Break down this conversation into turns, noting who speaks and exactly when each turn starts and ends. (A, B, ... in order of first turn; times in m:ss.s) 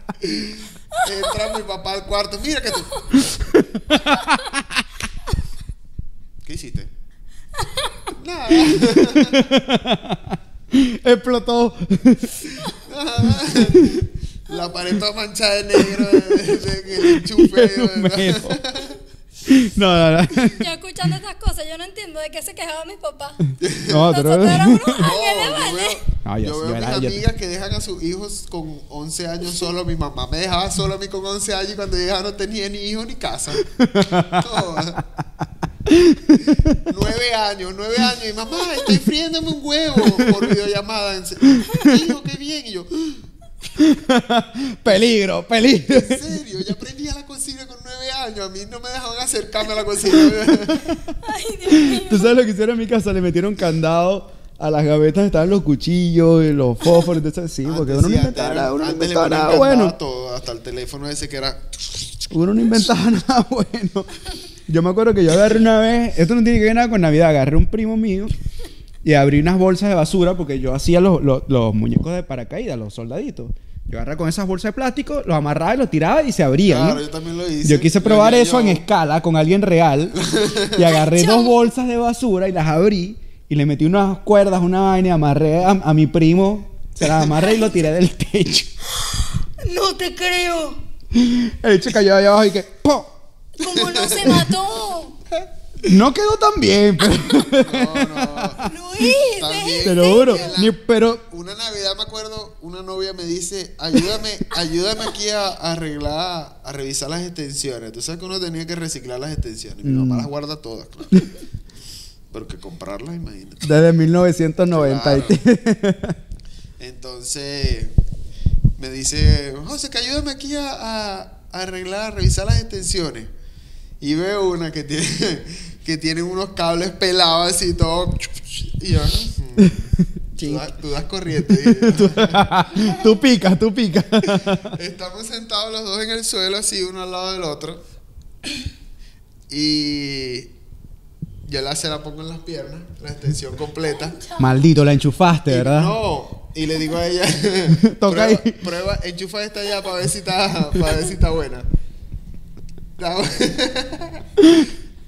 0:00.2-0:03.1 A
0:03.2-0:04.8 B
0:06.4-0:06.9 A
0:07.7-0:07.9 C
0:08.1-0:09.5 A
0:08.8-0:12.5 B
0:12.7-0:19.0 A
0:13.6-0:14.0 B
0:15.9-0:16.5 B
0:17.0-0:18.6 B
0:19.4-0:20.6 B
0:20.3-0:23.4 C
0:23.6-0:24.1 A
0:23.8-0:25.0 B
0:23.9-0:26.0 C
0:25.0-0:35.0 A
0:26.2-0:27.2 B
0:33.6-0:34.5 B
0:35.9-0:36.9 B
0:36.7-0:43.2 A
0:40.0-0:40.4 B
0:41.6-0:41.9 B
0:43.8-0:46.3 B
0:45.8-0:50.9 A
0:50.7-0:51.0 B
0:51.2-0:52.3 C
0:51.7-0:59.9 B
0:57.6-1:02.1 A
1:02.3-1:04.1 B
1:04.7-1:08.3 B
1:09.0-1:17.0 B
1:16.6-1:18.8 A
1:17.6-1:20.2 B
1:20.2-1:20.9 A
1:20.7-1:28.7 B
1:20.9-1:21.6 C
1:29.0-1:30.8 C
1:31.1-1:33.1 B
1:33.6-1:35.2 C
1:33.6-1:34.5 A
1:35.8-1:38.7 B
1:37.5-1:51.3 A
1:38.6-1:40.6 C
1:39.8-1:41.2 B
1:49.8-1:50.3 B
1:52.3-1:53.7 A
1:53.6-1:56.2 B
1:54.7-1:55.4 A
1:56.8-1:58.0 A
1:58.8-2:03.3 A
2:04.0-2:12.9 A
2:10.3-2:10.7 B
2:11.4-2:14.7 B
2:14.2-2:17.8 A
2:19.5-2:20.5 A
2:21.4-2:24.2 A
2:24.0-2:24.6 C
2:24.4-2:25.9 B
2:25.5-2:31.7 A
2:27.8-2:28.6 B
2:33.0-2:34.2 A
2:34.4-2:34.7 B